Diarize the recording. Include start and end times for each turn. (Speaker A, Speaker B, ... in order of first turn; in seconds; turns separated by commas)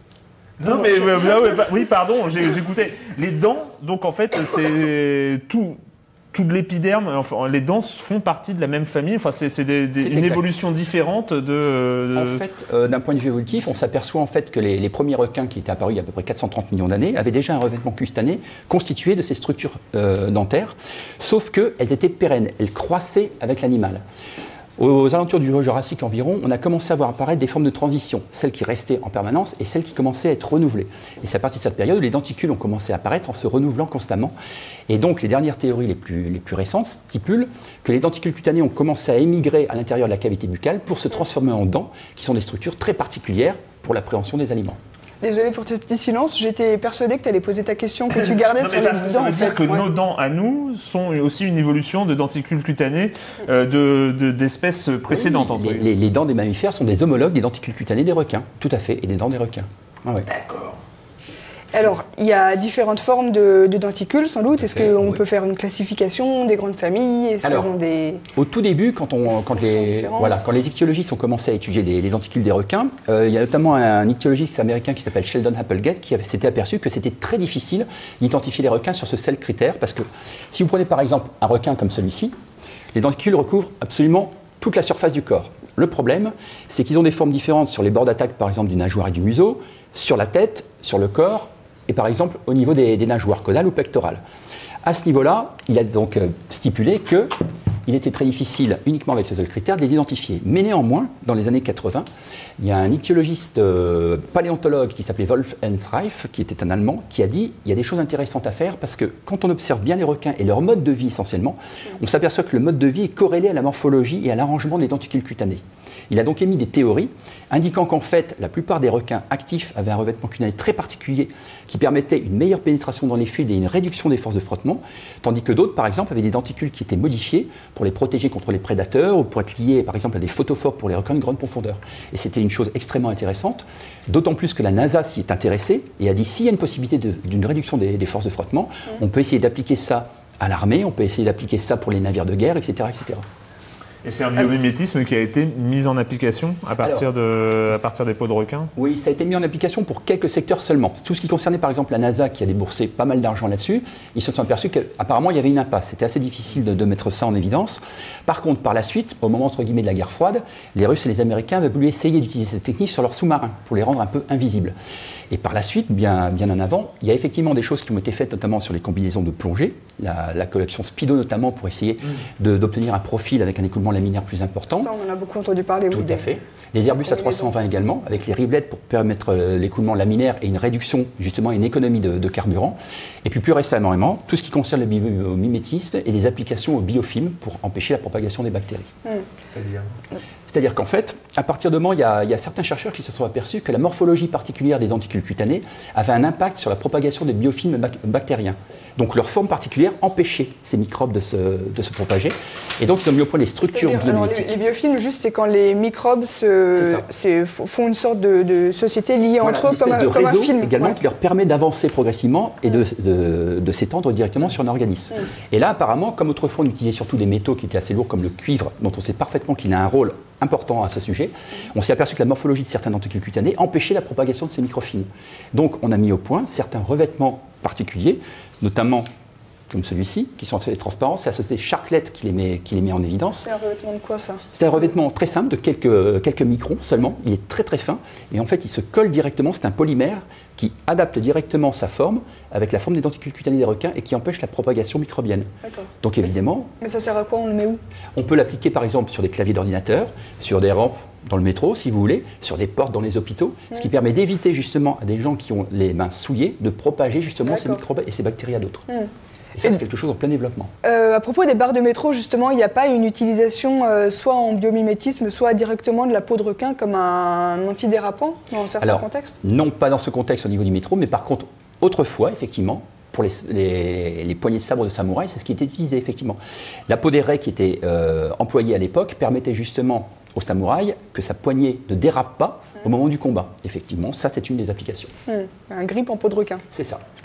Speaker A: 0.6-5.8, Speaker A: 6.3-12.4, Speaker B: 10.0-10.4, Speaker B: 12.1-24.0, Speaker B: 24.8-34.3, Speaker B: 34.9-44.8, Speaker C: 45.2-49.9, Speaker A: 48.2-55.9, Speaker B: 55.1-60.3, Speaker A: 60.3-60.8, Speaker C: 61.7-68.2, Speaker B: 64.6-65.2, Speaker B: 67.4-67.7, Speaker B: 68.3-82.3, Speaker C: 69.3-70.4, Speaker B: 82.9-94.2, Speaker B: 94.8-97.3, Speaker B: 97.9-102.1, Speaker B: 102.6-143.3, Speaker A: 144.0-148.7, Speaker B: 146.8-147.1, Speaker B: 148.8-164.8, Speaker B: 165.3-174.9, Speaker C: 174.7-176.3, Speaker B: 175.9-188.9, Speaker C: 176.9-177.5, Speaker A: 189.4-189.9, Speaker B: 190.5-204.6, Speaker C: 203.6-211.0, Speaker B: 206.7-207.1, Speaker B: 209.4-229.1, Speaker B: 229.7-233.5, Speaker C: 233.4-234.5, Speaker B: 234.5-245.5, Speaker C: 245.6-245.9, Speaker B: 246.0-246.7, Speaker C: 246.8-247.8, Speaker B: 248.2-258.9, Speaker C: 257.5-257.8, Speaker B: 259.6-260.7, Speaker C: 260.8-269.4, Speaker B: 268.8-285.1, Speaker C: 285.3-286.7, Speaker B: 286.7-287.0